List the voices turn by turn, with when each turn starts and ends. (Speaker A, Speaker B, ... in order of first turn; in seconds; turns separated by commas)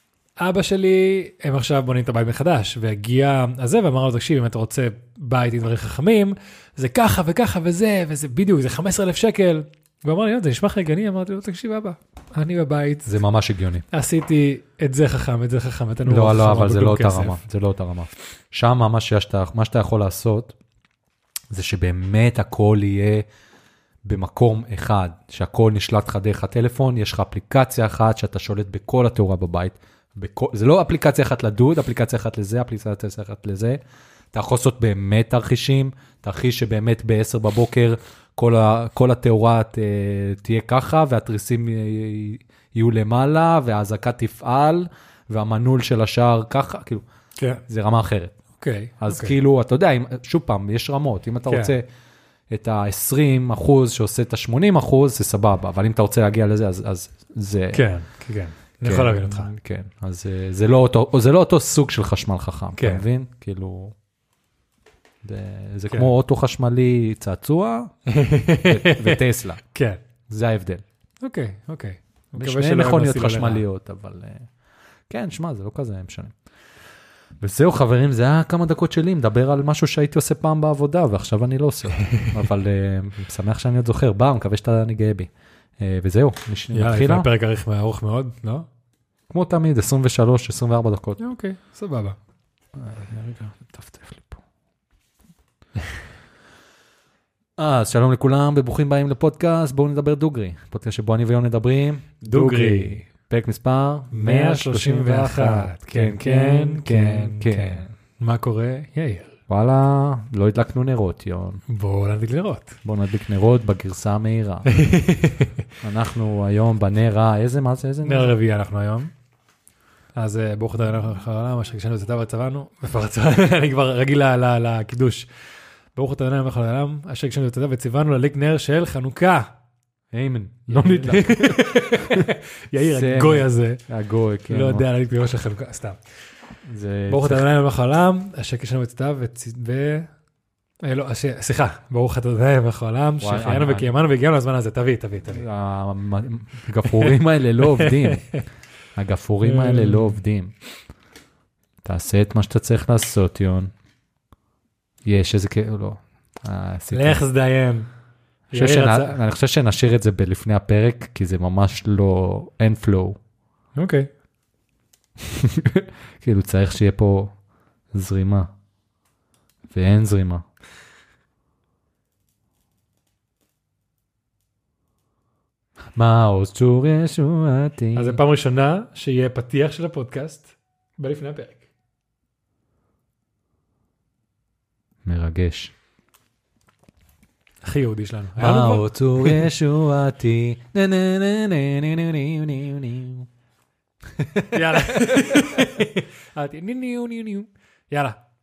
Speaker A: 0.4-13.1, Speaker B: 13.0-13.8, Speaker A: 13.9-17.4, Speaker B: 16.1-20.5, Speaker B: 21.5-23.2, Speaker B: 24.0-33.8, Speaker B: 34.3-47.0, Speaker A: 47.4-47.6, Speaker B: 47.7-48.4, Speaker A: 48.6-49.4, Speaker B: 49.0-51.8, Speaker A: 51.5-51.7, Speaker B: 52.5-57.9, Speaker A: 57.7-59.5, Speaker B: 58.8-63.9, Speaker A: 62.7-63.0, Speaker B: 65.2-67.9, Speaker A: 68.1-70.0, Speaker B: 68.5-69.6, Speaker B: 70.3-70.8, Speaker A: 71.2-73.6, Speaker B: 72.3-74.5, Speaker B: 75.1-76.3, Speaker B: 77.4-87.3, Speaker A: 86.7-88.7, Speaker B: 89.3-91.2, Speaker A: 91.2-92.2, Speaker B: 92.7-94.4, Speaker B: 97.6-107.8, Speaker A: 102.2-103.0, Speaker A: 104.1-109.3, Speaker B: 109.5-111.6, Speaker A: 111.7-112.8, Speaker B: 112.8-114.7, Speaker A: 114.7-115.6, Speaker B: 115.8-118.3, Speaker A: 118.0-119.1, Speaker A: 120.2-125.3, Speaker A: 125.9-129.5, Speaker B: 130.1-134.8, Speaker A: 130.7-133.8, Speaker A: 134.5-136.0, Speaker B: 136.6-137.5, Speaker A: 137.1-140.1, Speaker A: 140.8-145.4, Speaker B: 143.2-143.9, Speaker B: 145.3-148.2, Speaker A: 147.7-148.4, Speaker B: 148.9-150.5, Speaker A: 149.4-150.2, Speaker B: 151.8-153.7, Speaker B: 155.0-157.2, Speaker A: 156.9-157.9, Speaker A: 158.5-159.2, Speaker B: 158.5-163.2, Speaker A: 163.8-164.1, Speaker B: 165.2-167.3, Speaker B: 167.9-168.5, Speaker B: 169.7-170.4, Speaker B: 175.9-178.2, Speaker A: 177.9-181.6, Speaker B: 185.0-185.7, Speaker A: 187.6-189.4, Speaker B: 188.4-193.3, Speaker B: 194.1-195.8, Speaker A: 194.5-198.2